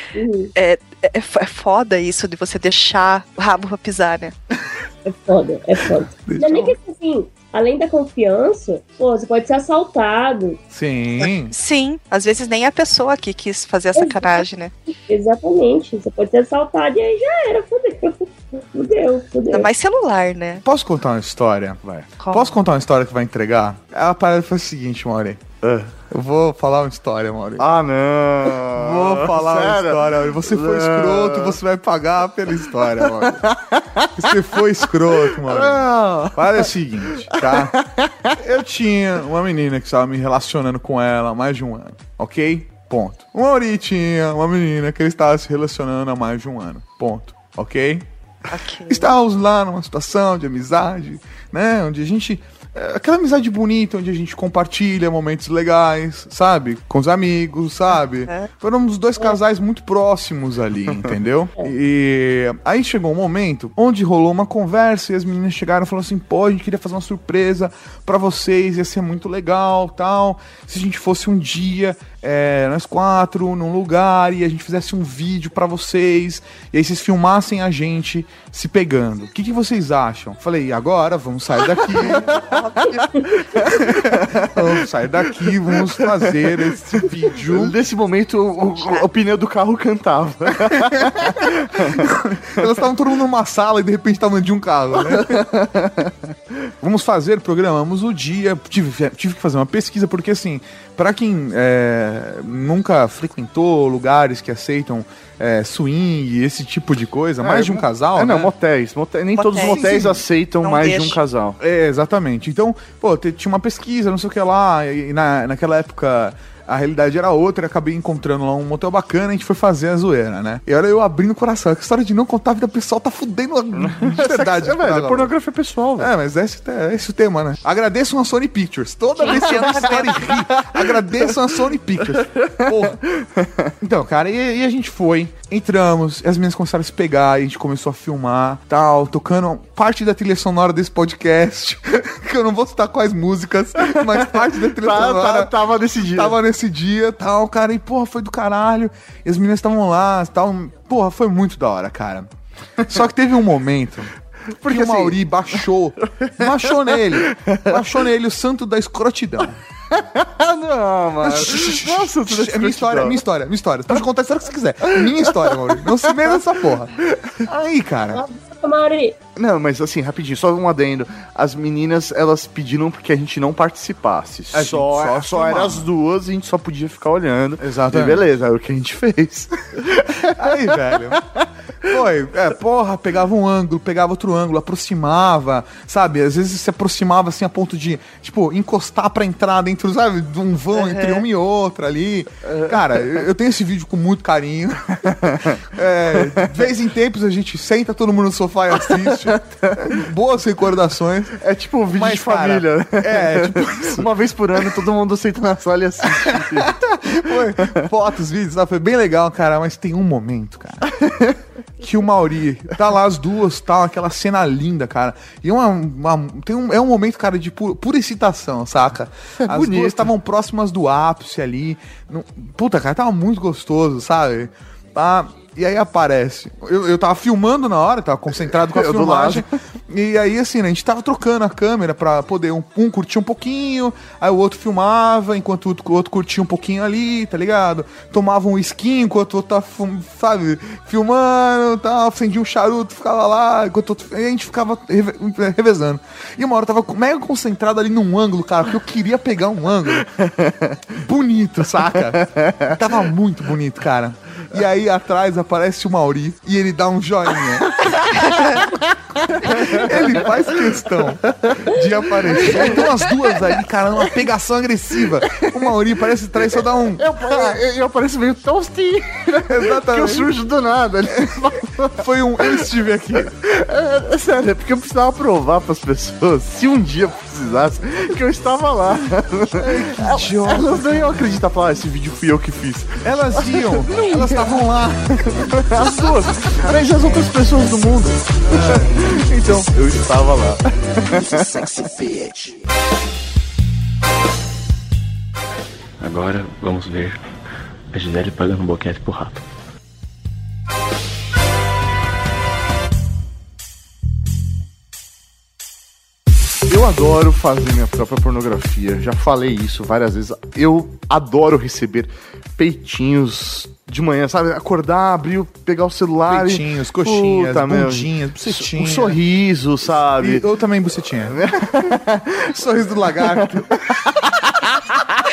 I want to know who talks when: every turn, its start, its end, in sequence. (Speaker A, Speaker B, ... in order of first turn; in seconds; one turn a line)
Speaker A: 0.1-0.5
Speaker B: 0.6-4.3
Speaker A: 5.0-10.6
Speaker C: 6.3-6.8
Speaker C: 10.7-11.5
Speaker B: 11.2-14.7
Speaker A: 14.0-19.7
Speaker B: 19.5-20.6
Speaker C: 20.6-21.8
Speaker D: 21.8-22.1
Speaker B: 22.2-22.6
Speaker C: 22.3-25.4
Speaker D: 25.6-25.9
Speaker C: 26.1-27.7
Speaker D: 27.6-31.6
Speaker C: 28.6-33.4
Speaker D: 32.8-34.1
Speaker C: 34.2-37.8
Speaker D: 35.1-38.4
Speaker C: 38.4-48.1
Speaker B: 48.5-49.1
Speaker C: 48.9-82.3
Speaker B: 82.0-83.3
Speaker D: 83.5-84.6
Speaker C: 83.7-87.8
Speaker D: 85.4-86.4
Speaker D: 87.4-92.0
Speaker B: 88.8-89.1
Speaker C: 90.7-95.4
Speaker D: 95.1-96.1
Speaker C: 96.8-108.5
Speaker D: 107.4-111.6
Speaker B: 109.4-111.2
Speaker C: 109.6-110.2
Speaker C: 111.6-125.3
Speaker D: 123.8-126.1
Speaker C: 126.0-133.0
Speaker B: 129.2-130.2
Speaker D: 129.3-131.5
Speaker D: 132.2-133.7
Speaker C: 133.8-152.3
Speaker D: 143.9-146.4
Speaker C: 152.9-154.1
Speaker C: 154.6-159.6
Speaker D: 154.6-157.8
Speaker D: 159.9-163.2
Speaker C: 161.2-166.9
Speaker D: 164.9-166.4
Speaker D: 167.0-167.4
Speaker C: 167.5-168.2
Speaker A: 168.1-169.2
Speaker D: 169.4-180.9
Speaker C: 174.5-175.9
Speaker C: 177.6-178.2
Speaker C: 180.3-181.2
Speaker C: 181.9-201.4
Speaker B: 190.7-191.2
Speaker D: 192.4-193.2
Speaker D: 195.1-195.6
Speaker D: 198.8-199.9
Speaker D: 201.4-207.9
Speaker C: 201.9-204.8
Speaker C: 206.2-210.9
Speaker D: 210.9-211.4
Speaker C: 211.8-250.1
Speaker D: 219.4-220.1
Speaker D: 228.5-229.5
Speaker D: 250.1-250.8
Speaker C: 251.0-257.9
Speaker D: 252.2-252.8
Speaker D: 257.8-260.4
Speaker C: 259.4-267.6
Speaker D: 261.4-261.8
Speaker D: 265.3-265.7
Speaker D: 266.6-272.7
Speaker C: 269.5-270.4
Speaker C: 272.0-273.3
Speaker D: 273.2-284.6
Speaker C: 279.6-281.3
Speaker C: 283.0-285.9
Speaker D: 285.3-291.7
Speaker C: 288.5-289.1
Speaker E: 296.0-297.2
Speaker E: 297.9-299.4
Speaker D: 306.7-320.5
Speaker C: 316.3-319.2
Speaker C: 320.0-321.8
Speaker D: 321.3-322.6
Speaker C: 322.5-323.8
Speaker D: 323.2-325.2